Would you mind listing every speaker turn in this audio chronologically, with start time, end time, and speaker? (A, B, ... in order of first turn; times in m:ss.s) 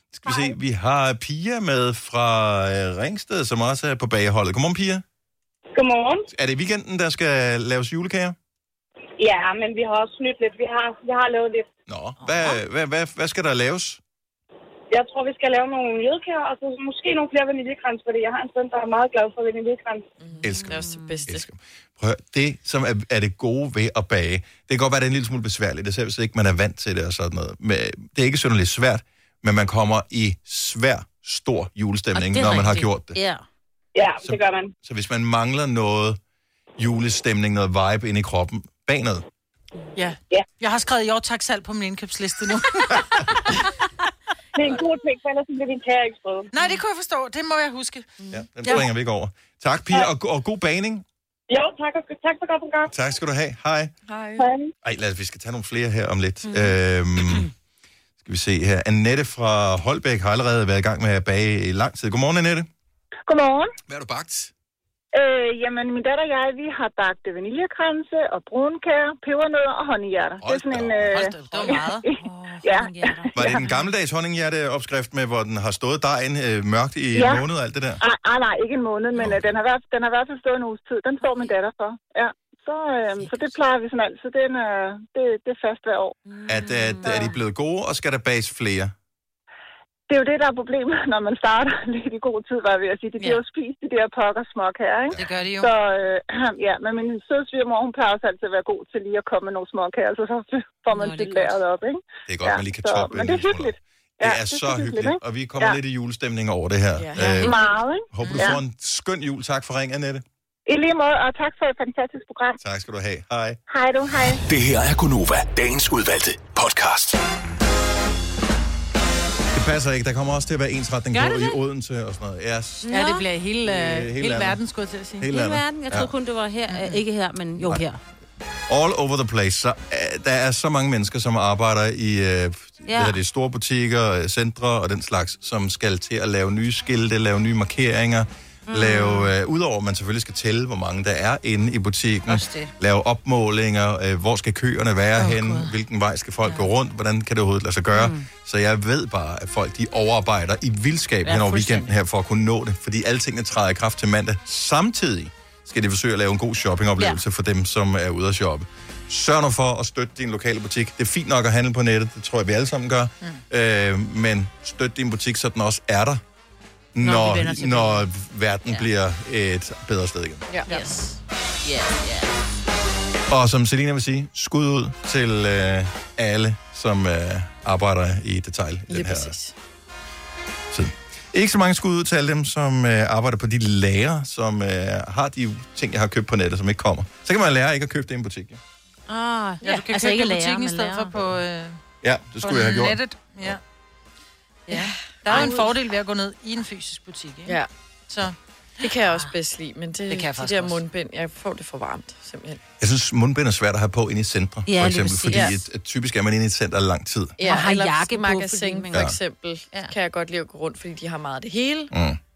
0:00.1-0:05.0 A
0:05.7-0:06.3 B
0:06.3-0:08.4 A
0:09.2-0:11.7 B
0:11.9-0:14.0 A
0:14.9-0:20.0 B
0:20.2-0:21.4 C
0:20.4-0:33.2 A
0:20.5-0:21.2 D
0:32.1-0:33.4 D
0:33.9-0:34.7 B
0:34.2-0:36.2 A
0:36.8-0:39.3 A
0:40.0-0:43.4 E
0:44.6-0:46.5 B
0:46.5-0:48.1 E
0:48.3-0:51.0 A
0:51.5-0:52.9 B
0:52.9-0:53.9 A
0:54.1-0:54.5 C
0:54.4-0:54.7 B
0:54.8-0:57.5 A
0:56.4-0:56.7 D
0:58.2-1:02.7 A
1:03.3-1:03.7 F
1:03.9-1:04.5 A
1:05.1-1:13.6 F
1:10.4-1:11.2 A
1:11.0-1:12.2 E
1:11.4-1:13.8 D
1:13.3-1:18.0 A
1:17.1-1:17.4 F
1:18.0-1:26.1 F
1:26.3-1:27.3 D
1:26.5-1:28.9 A
1:30.1-1:45.8 F
1:35.2-1:35.7 E
1:40.9-1:41.6 D
1:42.3-1:50.2 A
1:47.0-1:47.6 C
1:47.4-1:48.6 F
1:48.2-1:48.5 E
1:50.7-1:52.6 F
1:52.6-1:53.6 A
1:53.7-1:54.4 F
1:54.5-1:57.2 G
1:59.5-2:02.9 A
2:01.1-2:01.6 D
2:02.8-2:03.3 D
2:02.9-2:05.3 E
2:03.6-2:04.6 A
2:05.2-2:06.1 A
2:05.3-2:08.0 D
2:06.7-2:07.0 E
2:08.7-2:46.2 A
2:12.9-2:13.2 D
2:18.7-2:19.3 D
2:22.3-2:22.7 D
2:25.2-2:25.7 E
2:27.9-2:28.3 D
2:31.2-2:31.9 D
2:46.9-2:50.4 A
2:47.0-2:48.1 D
2:50.5-2:51.0 C
2:50.7-2:52.4 D
2:53.3-2:59.4 A
2:58.9-2:59.5 C
3:00.7-3:08.6 A
3:09.1-3:11.2 D
3:09.6-3:11.8 E
3:12.0-3:13.6 A
3:12.4-3:13.6 E
3:14.7-3:15.7 C
3:14.7-3:15.7 D
3:15.2-3:18.3 E
3:18.8-3:22.6 C
3:20.1-3:20.7 D
3:22.8-3:27.4 A
3:24.6-3:25.5 D
3:25.3-3:25.6 C
3:27.4-3:31.9 C
3:27.4-3:29.1 D
3:28.9-3:29.2 A
3:31.9-3:32.2 A